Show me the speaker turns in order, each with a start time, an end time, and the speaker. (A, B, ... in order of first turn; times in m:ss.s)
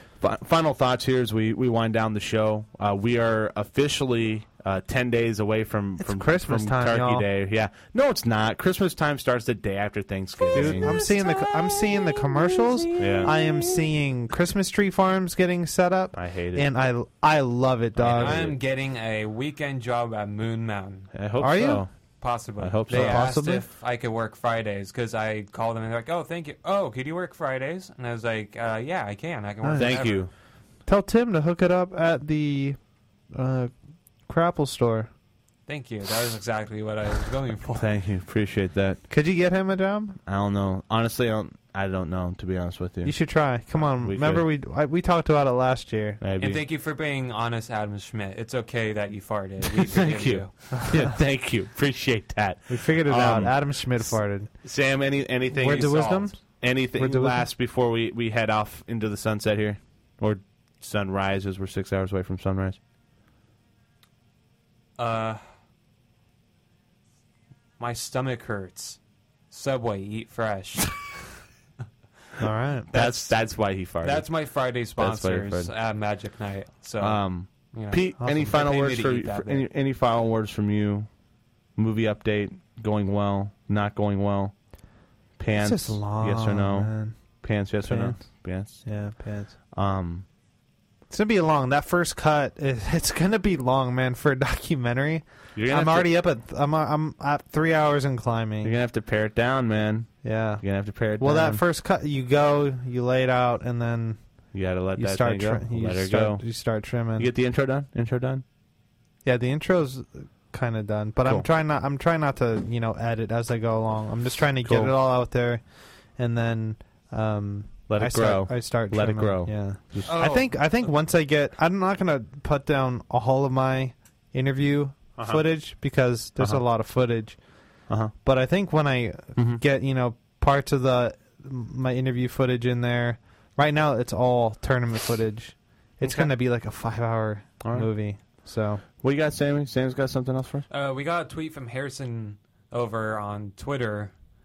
0:00.2-0:11.1 A
0:06.0-0:07.3 B
0:10.5-0:18.4 B
0:12.9-0:13.4 A
0:16.1-0:16.7 A
0:18.0-0:18.6 A
0:18.1-0:21.1 C
0:21.1-0:21.9 A
0:21.4-0:21.8 B
0:22.2-0:30.3 C
0:22.6-0:23.3 A
0:22.9-0:23.7 B
0:29.6-0:30.0 B
0:29.8-0:30.3 A
0:30.9-0:32.8 B
0:33.3-0:33.7 B
0:34.3-0:35.1 B
0:35.7-0:37.9 C
0:37.8-0:39.0 A
0:39.1-0:40.2 B
0:40.3-0:43.1 A
0:43.0-0:46.2 B
0:43.8-0:44.5 A
0:46.2-0:46.6 A
0:46.4-0:50.5 C
0:49.6-1:02.8 A
0:50.8-0:51.1 B
0:52.7-0:54.5 B
0:55.5-0:56.4 B
0:57.0-0:57.5 B
1:05.0-1:05.4 C
1:07.8-1:09.0 C
1:09.5-1:11.3 C
1:12.4-1:12.9 B
1:12.9-1:13.4 C
1:12.9-1:14.3 A
1:14.0-1:17.2 C
1:15.0-1:15.7 A
1:17.0-1:21.1 A
1:17.7-1:19.6 C
1:18.2-1:18.5 B
1:21.8-1:24.5 A
1:25.4-1:26.9 A
1:25.6-1:27.2 B
1:27.4-1:28.8 A
1:27.8-1:28.2 B
1:28.8-1:29.5 B
1:29.7-1:30.3 A
1:31.1-1:38.8 B
1:35.6-1:36.1 A
1:38.6-1:41.6 A
1:40.2-1:40.6 B
1:41.2-1:44.2 B
1:44.5-1:46.4 A
1:45.0-1:47.3 B
1:47.2-1:48.4 A
1:49.2-1:55.6 B
1:54.6-1:54.9 A
1:56.2-2:07.4 B
1:57.9-2:00.1 A
2:00.1-2:00.5 C
2:08.2-2:18.8 B
2:09.4-2:09.6 A
2:16.0-2:16.3 A
2:17.6-2:17.9 A
2:19.0-2:20.7 A
2:20.7-2:24.1 C